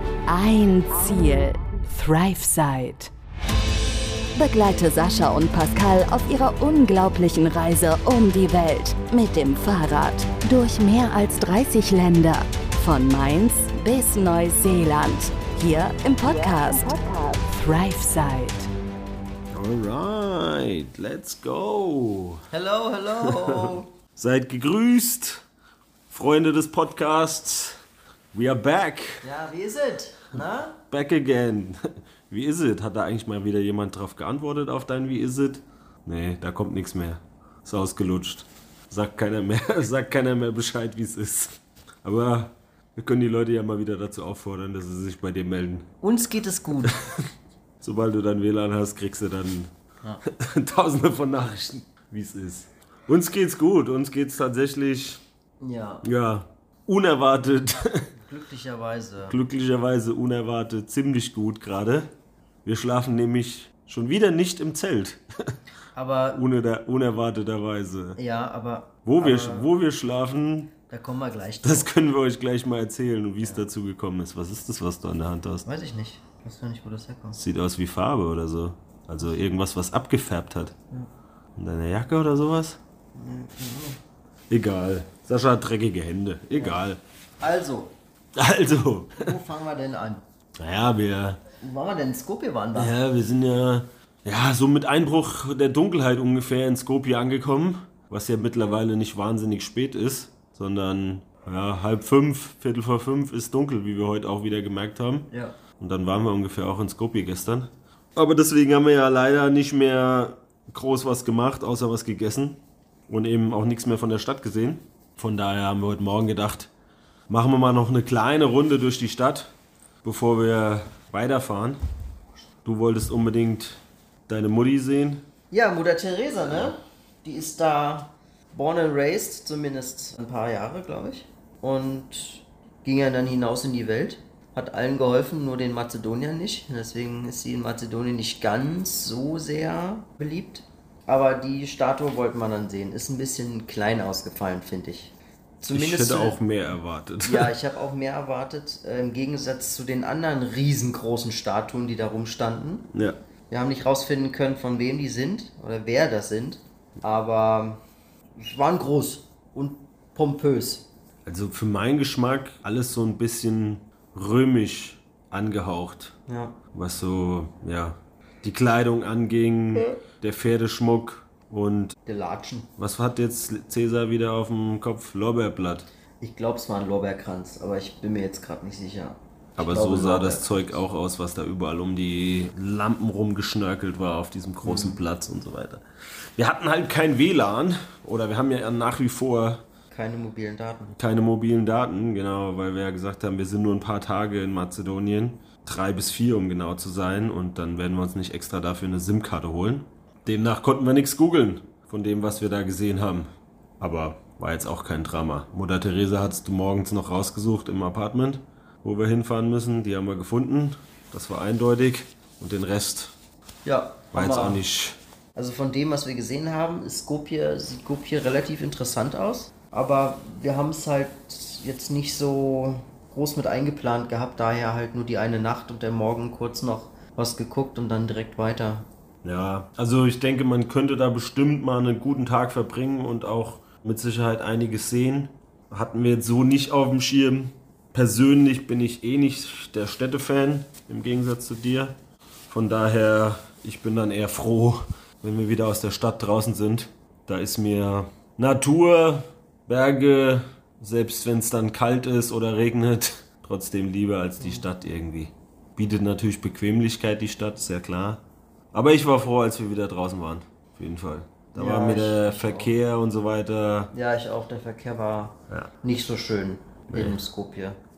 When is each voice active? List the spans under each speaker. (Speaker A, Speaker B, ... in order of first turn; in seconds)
Speaker A: 0.2-3.1, 4.3-18.7
Speaker B: 19.5-22.4, 23.2-25.4, 26.1-27.8, 28.3-29.3, 30.9-45.9, 46.9-47.2, 47.8-49.7, 50.2-55.2, 56.0-58.1, 59.3-62.1, 62.6-65.5, 66.3-68.2, 69.0-70.7, 71.6-75.7, 77.4-80.7, 81.5-82.8, 84.5-87.0, 88.3-89.4, 90.5-91.4, 92.7-105.3, 105.8-116.7, 117.3-121.8, 122.6-125.2, 145.7-147.5, 161.2-166.2, 166.7-171.9, 172.8-175.9, 179.6-185.8, 186.4-189.6, 191.0-213.1, 214.1-215.0, 229.2-241.9, 242.5-258.2, 258.7-263.9, 266.9-267.2
Speaker C: 22.5-23.9, 29.2-30.8, 46.0-47.0, 55.6-56.0, 58.1-59.4, 65.9-66.4, 68.2-69.7, 70.9-71.9, 75.6-77.4, 83.1-84.0, 87.4-87.9, 89.2-90.2, 91.6-92.9, 105.3-105.5, 125.5-146.4, 147.2-152.9, 153.5-157.8, 158.4-160.9, 166.3-166.6, 172.1-172.7, 176.2-180.8, 184.6-185.0, 189.9-191.0, 213.6-214.6, 215.3-228.9, 261.6-262.7, 263.9-267.8